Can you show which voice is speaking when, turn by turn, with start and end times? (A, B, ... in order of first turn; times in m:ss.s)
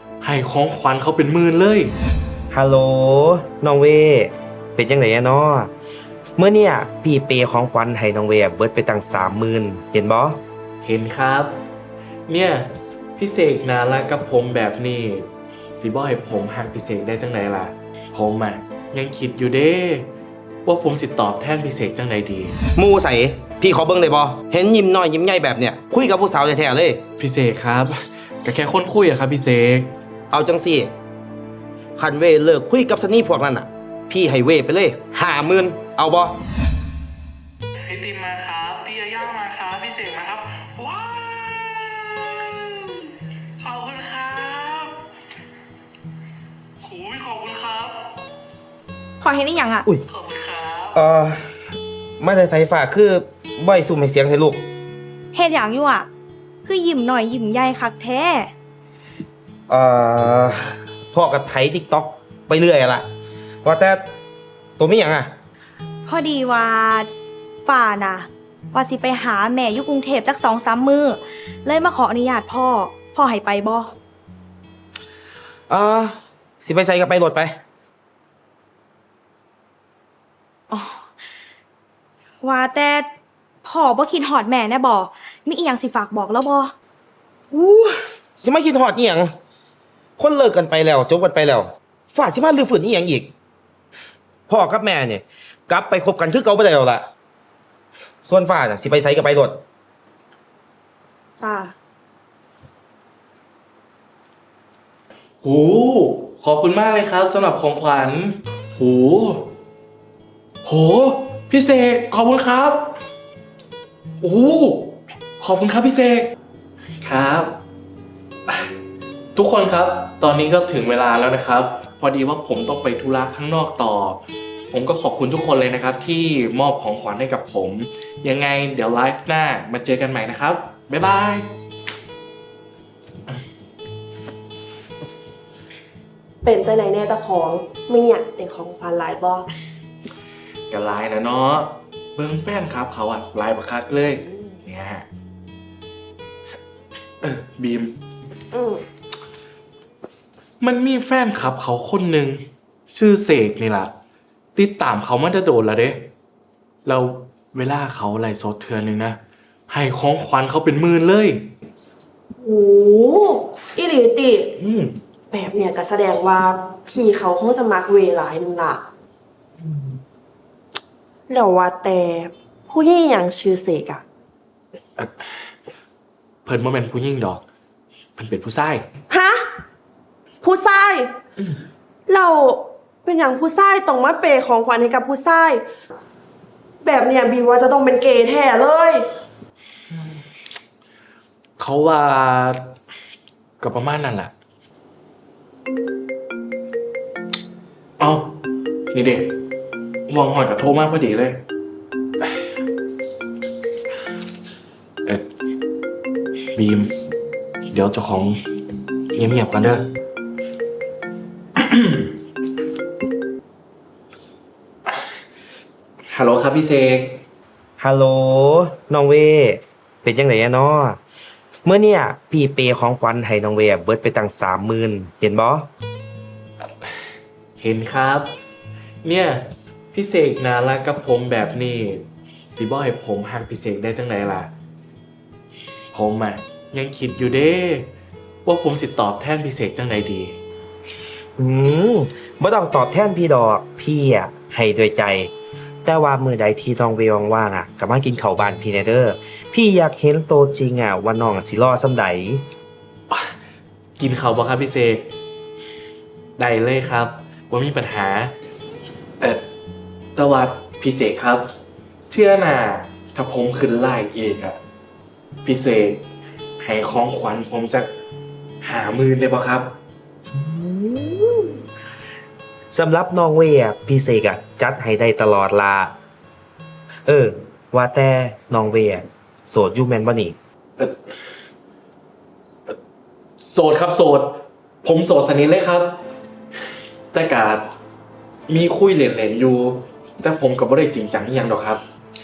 0:00.2-0:01.9 A
0:02.5-0:05.7 B
0:06.4-0:10.4 B
0:10.8-0:11.6 A
0:12.3-0:20.1 A
0:20.7-0:22.6 A
0:22.8-0:27.0 B
0:27.2-0:29.9 A
0:30.3-0:30.9 B
0:32.0-0:36.4 B
0:37.8-0:42.9 A
0:43.6-0:45.0 A
0:46.8-0:48.0 A
0:49.2-0:49.9 C
0:50.1-0:50.9 A
0:50.9-0:51.5 B
0:52.2-0:54.7 B
0:55.3-0:56.1 C
0:56.6-0:58.5 C
0:59.7-1:03.1 B
1:03.6-1:04.0 B
1:04.8-1:05.3 B
1:06.1-1:07.1 C
1:07.7-1:13.9 C
1:15.7-1:17.6 B
1:20.7-1:21.0 C
1:22.4-1:23.1 C
1:23.6-1:26.7 C
1:27.5-1:29.3 B
1:30.2-1:33.3 B
1:34.5-1:37.1 B
1:38.3-1:39.6 B
1:41.4-1:41.7 C
1:45.4-1:49.5 A
1:50.6-1:53.0 A
1:54.2-1:56.3 A
1:57.0-1:57.6 A
1:59.4-2:11.5 A
2:16.4-2:19.5 D
2:20.7-2:25.1 A
2:27.2-2:28.0 A
2:28.5-2:28.8 D
2:30.6-2:33.9 A
2:34.6-2:36.1 A
2:36.8-2:39.2 A
2:39.7-2:41.5 A
2:42.4-2:44.5 D
2:44.6-2:45.0 A
2:45.3-2:48.8 D
2:51.3-2:54.0 D
2:56.4-2:57.4 A
2:58.2-2:58.9 A
2:59.1-2:59.4 D
3:00.4-3:01.1 D
3:02.1-3:05.6 D
3:06.8-3:09.1 D
3:11.6-3:12.7 A
3:13.6-3:14.3 A
3:18.0-3:18.4 A
3:18.9-3:19.3 A
3:20.1-3:21.4 A
3:26.6-3:26.9 A
3:27.7-3:28.4 A
3:29.1-3:29.8 A
3:31.6-3:32.1 A
3:36.1-3:37.2 A
3:37.8-3:41.0 B
3:41.6-3:45.7 B
3:47.6-3:48.3 A
3:49.0-3:54.5 A
3:55.9-3:57.9 A
3:58.4-4:00.4 A
4:01.4-4:05.3 B
4:05.8-4:12.4 B
4:14.0-4:15.1 A
4:16.4-4:18.3 A
4:20.2-4:21.5 A
4:22.1-4:24.6 A
4:25.4-4:26.0 A
4:26.6-4:27.9 A
4:28.6-4:29.8 A
4:30.4-4:31.6 B
4:32.7-4:35.9 B
4:37.1-4:40.4 B
4:43.4-4:45.9 A
4:47.1-4:47.7 A
4:48.5-4:51.8 A